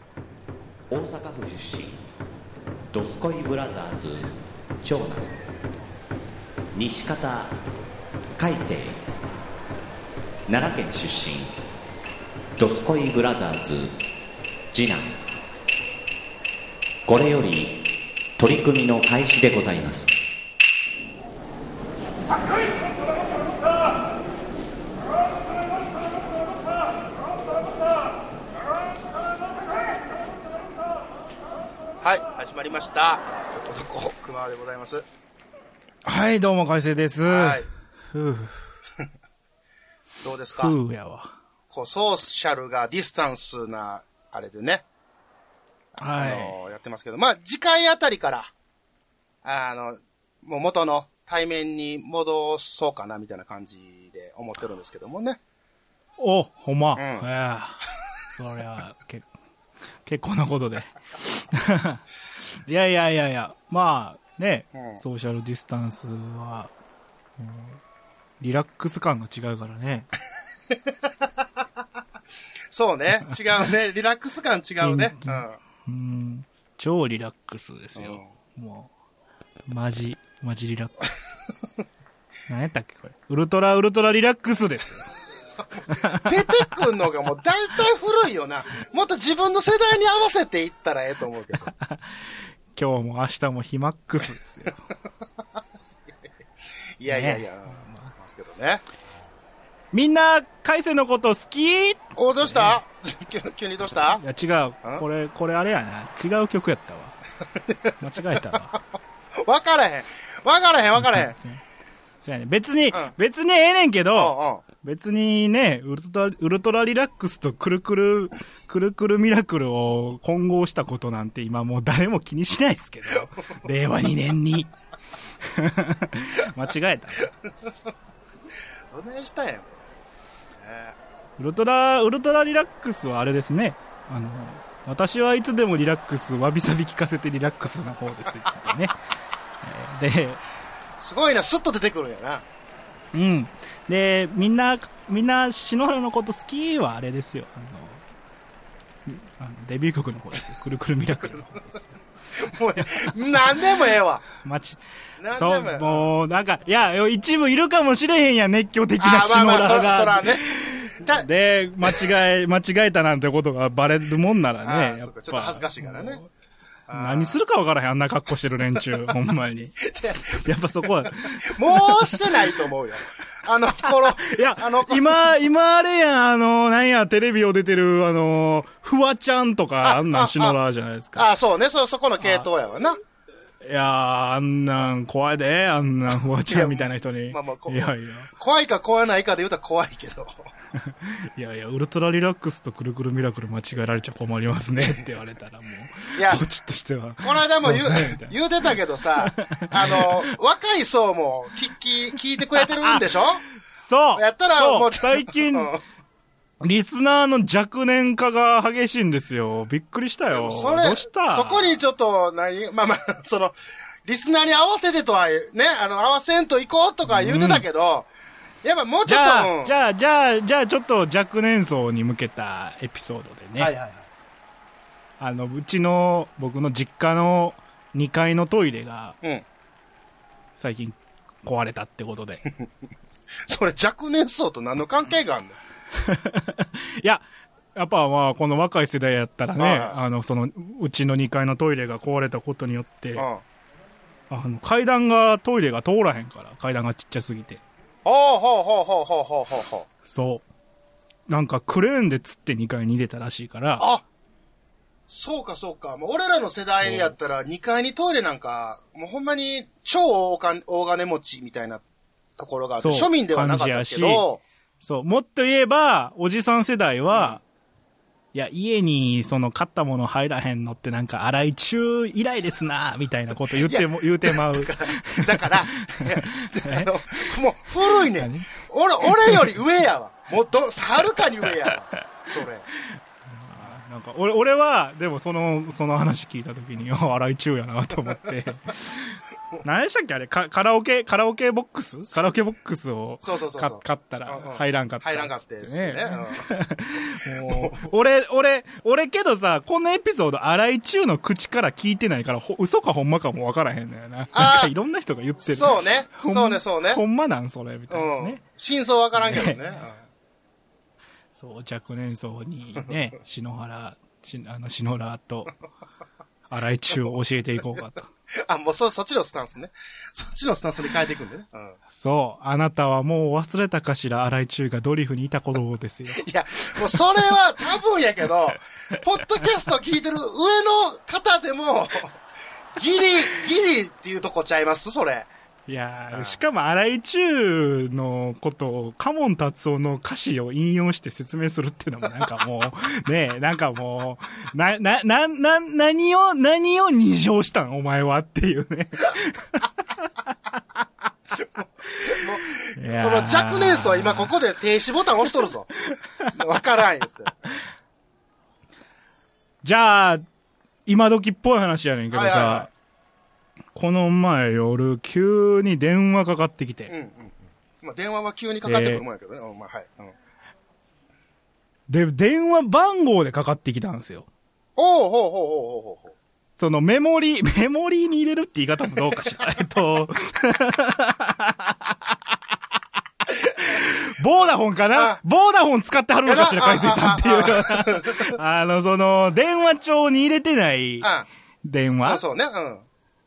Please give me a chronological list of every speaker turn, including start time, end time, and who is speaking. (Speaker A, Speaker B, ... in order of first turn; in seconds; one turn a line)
Speaker A: 0.9-2.0
Speaker A: 2.9-5.4
Speaker A: 6.7-7.5
Speaker A: 8.4-9.0
Speaker A: 10.5-11.5
Speaker A: 12.6-13.9
Speaker A: 14.7-15.2
Speaker A: 17.1-17.8
Speaker A: 18.4-20.2
Speaker B: 32.0-35.1
Speaker C: 36.0-38.6
Speaker B: 37.3-37.7
Speaker B: 40.2-40.7
Speaker C: 40.6-41.3
Speaker B: 41.7-44.9
Speaker C: 46.0-46.6
Speaker B: 46.2-48.5
Speaker B: 49.4-55.4
Speaker C: 56.2-57.8
Speaker B: 57.0-57.3
Speaker C: 58.3-59.3
Speaker C: 60.0-62.0
Speaker C: 62.7-66.7
Speaker B: 64.7-65.0
Speaker C: 67.4-67.8
Speaker C: 68.4-70.1
Speaker B: 72.7-75.6
Speaker C: 74.8-78.9
Speaker B: 78.0-78.3
Speaker C: 79.7-81.1
Speaker C: 82.5-85.1
Speaker C: 85.9-86.7
Speaker B: 86.2-91.7
Speaker C: 91.7-94.8
Speaker B: 97.0-98.8
Speaker C: 97.1-98.1
Speaker C: 99.9-102.8
Speaker B: 102.2-104.2
Speaker C: 104.2-107.2
Speaker B: 107.5-107.9
Speaker C: 108.0-108.8
Speaker B: 109.4-111.3
Speaker C: 111.0-111.6
Speaker C: 112.2-124.7
Speaker B: 114.1-114.6
Speaker C: 125.4-127.3
Speaker B: 128.9-129.7
Speaker B: 130.6-131.0
Speaker C: 131.4-139.0
Speaker C: 139.6-140.4
Speaker B: 141.0-142.4
Speaker C: 143.1-148.0
Speaker C: 149.1-152.0
Speaker B: 151.1-151.4
Speaker B: 152.3-154.2
Speaker C: 152.8-153.1
Speaker C: 154.4-154.8
Speaker B: 155.2-156.1
Speaker C: 155.3-166.3
Speaker B: 159.0-161.3
Speaker B: 161.8-162.1
Speaker B: 164.6-166.2
Speaker B: 166.9-167.4
Speaker C: 166.9-169.8
Speaker B: 169.8-170.5
Speaker C: 170.4-172.6
Speaker B: 171.1-175.3
Speaker C: 173.8-181.3
Speaker B: 179.8-180.6
Speaker B: 181.2-183.0
Speaker C: 182.2-182.5
Speaker C: 183.6-188.3
Speaker B: 186.5-190.5
Speaker C: 190.8-198.3
Speaker B: 196.2-196.4
Speaker B: 197.2-203.4
Speaker C: 199.2-200.3
Speaker C: 202.6-203.2
Speaker C: 203.8-205.7
Speaker B: 204.2-205.8
Speaker C: 206.6-211.8
Speaker B: 210.3-218.1
Speaker C: 217.1-217.7
Speaker B: 218.6-219.7
Speaker C: 219.1-223.7
Speaker B: 223.6-224.1
Speaker C: 225.2-229.2
Speaker C: 230.6-232.4
Speaker B: 233.5-235.6
Speaker C: 236.0-237.2
Speaker C: 237.8-243.3
Speaker B: 239.6-240.0
Speaker B: 243.2-243.4
Speaker C: 244.3-247.6
Speaker B: 248.1-249.9
Speaker C: 250.1-250.4
Speaker C: 251.3-253.8
Speaker B: 253.8-254.0
Speaker B: 255.1-261.8
Speaker C: 256.8-257.1
Speaker B: 262.4-264.4
Speaker C: 262.8-264.2
Speaker C: 264.8-267.4
Speaker B: 267.1-267.4
Speaker C: 268.3-277.2
Speaker B: 273.6-282.7
Speaker C: 277.9-279.5
Speaker C: 283.3-308.4
Speaker B: 293.2-296.5
Speaker B: 297.4-297.9
Speaker B: 304.3-304.7
Speaker B: 305.4-307.0
Speaker B: 307.9-310.0
Speaker C: 309.2-309.6
Speaker C: 311.4-315.6
Speaker C: 316.5-318.1
Speaker B: 318.4-321.8
Speaker C: 321.9-326.2
Speaker B: 326.2-332.2
Speaker B: 332.8-335.3
Speaker C: 335.7-350.4
Speaker B: 336.1-336.4
Speaker B: 351.4-355.8
Speaker C: 352.8-354.3
Speaker C: 355.9-356.3
Speaker B: 356.3-357.4
Speaker C: 359.6-360.2
Speaker C: 360.9-362.7
Speaker B: 362.1-362.7
Speaker C: 363.8-366.9
Speaker B: 366.9-370.1
Speaker C: 368.6-369.0
Speaker C: 371.9-374.3
Speaker B: 374.8-376.1
Speaker C: 376.6-381.9
Speaker C: 383.6-391.1
Speaker B: 386.3-388.3
Speaker B: 391.0-391.3
Speaker C: 391.6-392.2
Speaker B: 392.1-392.9